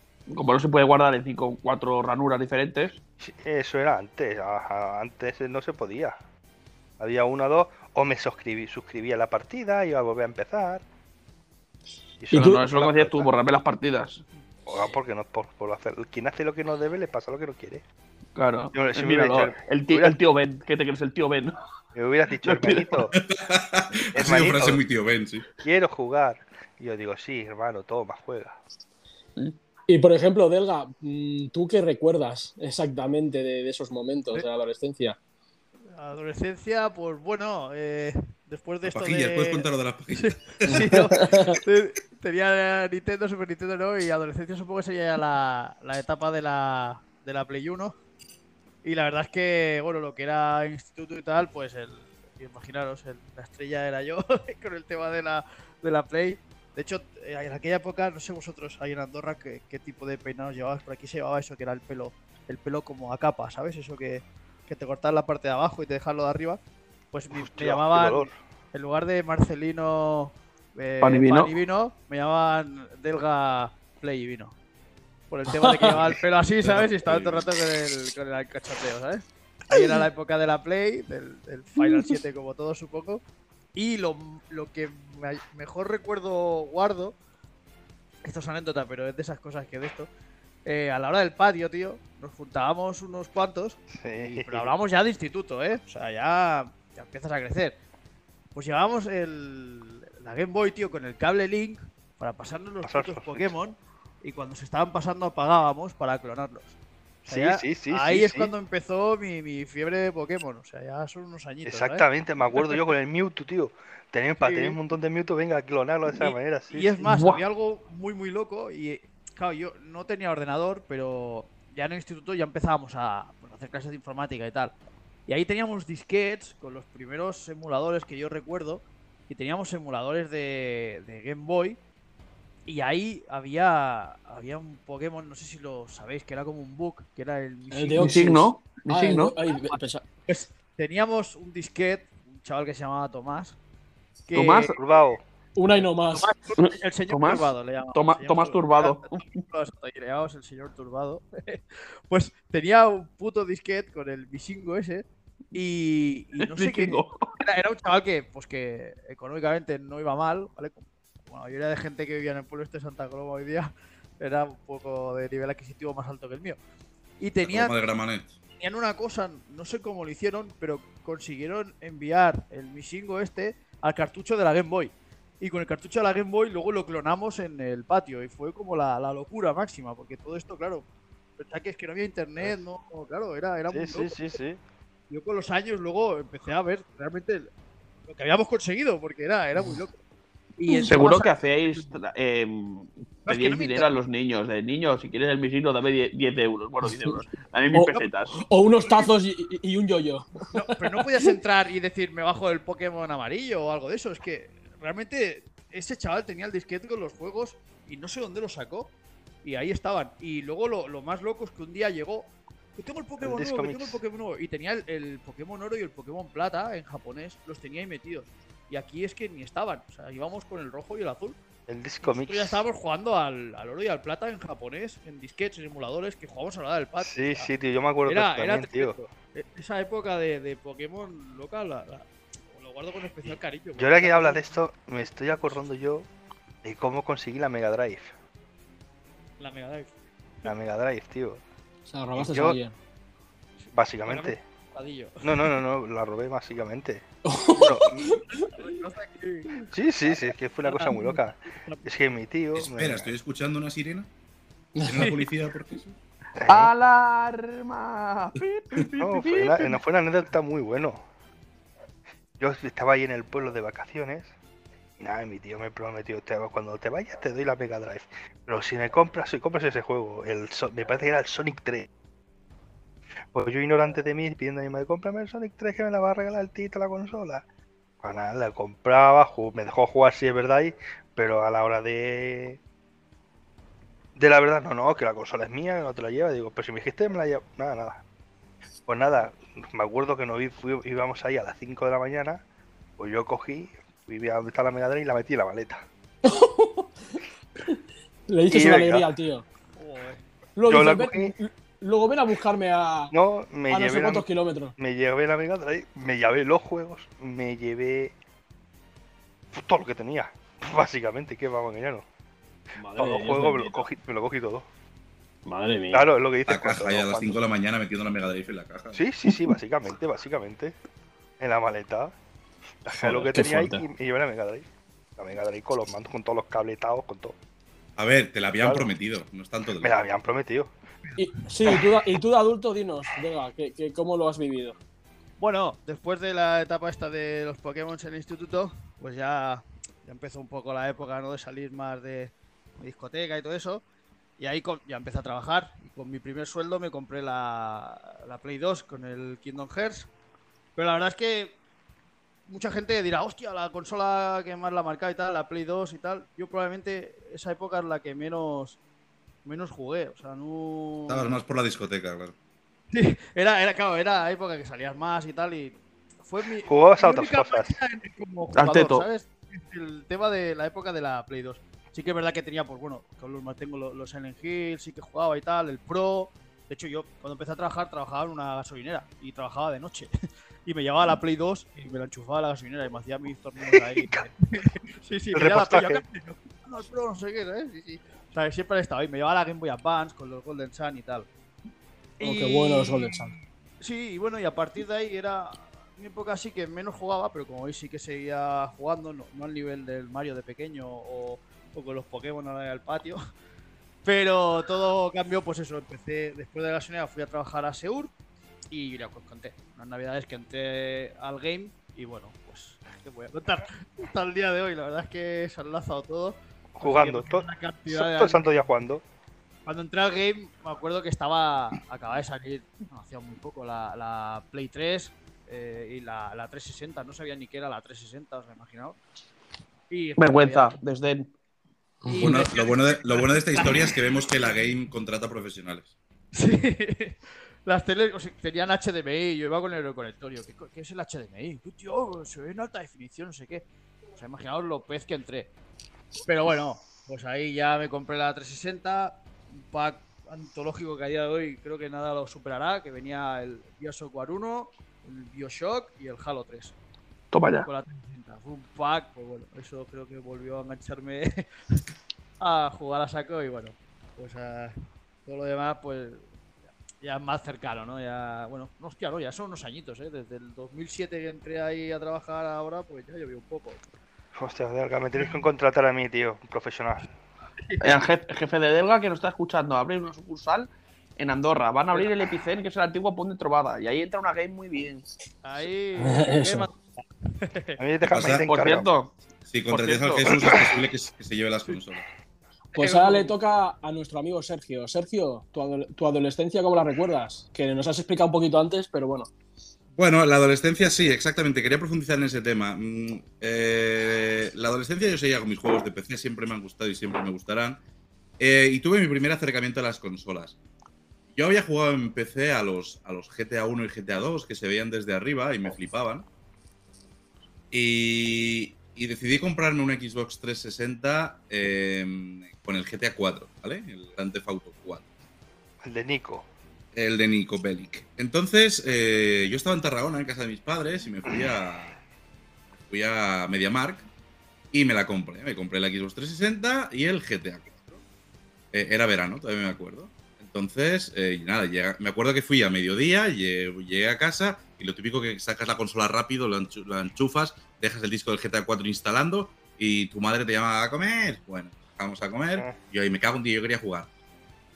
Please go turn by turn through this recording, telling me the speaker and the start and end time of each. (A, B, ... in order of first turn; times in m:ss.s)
0:00.3-0:03.0 A
0:03.2-0:06.2 B
0:07.0-0:10.8 B
0:12.2-0:13.3 B
0:12.3-0:14.2 A
0:14.6-0:17.8 B
0:18.4-0:21.6 A
0:18.7-0:20.2 B
0:21.9-0:23.1 B
0:22.4-0:23.0 A
0:23.2-0:25.4 C
0:24.1-0:24.8 B
0:25.6-0:28.6 B
0:29.9-0:35.2 D
0:35.9-0:47.9 E
0:38.9-0:40.9 C
0:40.7-0:41.6 D
0:48.8-1:06.6 E
1:07.1-1:14.5 E
1:07.3-1:08.3 B
1:11.0-1:11.5 A
1:15.3-1:23.2 E
1:15.6-1:15.9 D
1:16.6-1:17.5 C
1:23.7-1:27.1 E
1:28.2-1:30.1 E
1:30.6-1:37.7 E
1:33.9-1:34.7 B
1:38.5-1:52.0 E
1:42.8-1:43.5 B
1:47.3-1:48.5 B
1:51.6-1:57.1 B
1:54.4-1:54.8 E
1:56.1-2:04.7 E
1:57.1-1:57.4 A
2:05.3-2:11.8 E
2:12.6-2:18.2 E
2:17.7-2:20.0 D
2:18.0-2:19.4 A
2:19.5-2:23.6 E
2:24.3-2:24.8 E
2:24.4-2:24.7 A
2:24.7-2:25.2 B
2:25.6-2:26.3 D
2:26.1-2:46.6 E
2:26.6-2:29.4 A
2:36.4-2:37.4 A
2:47.2-2:47.7 E
2:47.4-2:48.4 C
2:48.6-3:00.8 E
3:01.4-3:04.2 E
3:03.7-3:04.6 B
3:05.1-3:07.5 E
3:08.1-3:09.9 E
3:10.6-3:11.9 E
3:10.9-3:18.3 A
3:13.3-3:13.9 E
3:17.7-3:21.3 D
3:20.5-3:28.9 E
3:29.4-3:41.4 E
3:33.2-3:34.0 B
3:41.7-3:42.6 B
3:42.0-3:47.5 E
3:47.0-3:49.0 B
3:48.1-3:54.4 E
3:53.3-3:56.1 B
3:56.6-3:58.1 B
3:59.4-3:59.9 E
4:00.4-4:01.4 B
4:01.9-4:02.7 D
4:02.1-4:02.6 B
4:03.7-4:04.4 B
4:04.1-4:05.3 E
4:05.2-4:08.0 B
4:07.2-4:08.5 D
4:08.4-4:09.7 E
4:09.7-4:13.1 B
4:10.7-4:11.8 E
4:12.6-4:14.1 C
4:14.8-4:15.1 D
4:14.8-4:16.0 C
4:16.4-4:16.7 B
4:16.5-4:19.8 A
4:19.0-4:21.0 B
4:22.4-4:24.3 B
4:25.0-4:31.9 B
4:33.3-4:37.4 B
4:38.0-4:42.6 B
4:44.2-4:48.0 B
4:48.9-4:52.4 B
4:53.0-4:55.9 B
4:56.2-4:57.2 D
4:58.3-4:59.4 D
4:58.5-4:59.1 B
4:59.8-5:00.2 E
5:00.6-5:03.1 D
5:00.7-5:01.3 B
5:03.1-5:08.1 B
5:03.7-5:04.7 D
5:09.5-5:12.0 B
5:12.8-5:13.8 D
5:13.0-5:14.7 B
5:15.4-5:16.1 D
5:15.9-5:17.4 B
5:16.5-5:19.0 C
5:18.9-5:20.8 B
5:21.4-5:22.1 B
5:22.8-5:27.4 B
5:23.0-5:23.9 D
5:28.0-5:30.0 C
5:28.6-5:28.9 B
5:29.8-5:30.7 B
5:31.2-5:34.8 D
5:35.4-5:43.8 E
5:44.4-5:50.1 E
5:50.8-5:51.6 E
5:52.5-5:58.8 E
5:59.4-6:01.3 E
6:01.1-6:02.3 C
6:02.9-6:20.1 E
6:06.7-6:07.7 B
6:08.5-6:09.1 A
6:20.7-6:31.3 E
6:25.3-6:26.0 B
6:32.2-6:43.2 E
6:32.2-6:33.4 D
6:44.0-6:48.1 E
6:48.7-6:58.5 E
6:56.7-6:59.0 B
6:59.7-7:09.0 E
7:09.9-7:10.8 E
7:10.2-7:11.3 A
7:12.0-7:14.0 E
7:12.2-7:15.9 C
7:16.3-7:25.5 E
7:26.3-7:36.7 E
7:37.3-7:37.7 A
7:37.7-7:41.8 E
7:42.4-7:46.2 E
7:47.0-7:53.8 E
7:54.3-7:57.1 B
7:57.7-7:58.0 E
7:57.8-8:05.0 A
8:05.4-8:07.8 E
8:06.0-8:06.7 D
8:07.8-8:08.9 B
8:08.1-8:08.5 C
8:08.4-8:09.1 A
8:09.5-8:12.0 C
8:09.7-8:10.6 A
8:12.7-8:19.3 D
8:12.8-8:13.2 E
8:20.0-8:27.8 C
8:28.4-8:30.6 C
8:31.3-8:36.3 C
8:37.7-8:45.0 C
8:45.8-8:46.4 B
8:46.9-8:52.0 C
8:52.9-8:54.0 C
8:54.7-8:58.0 C
8:58.7-9:14.1 C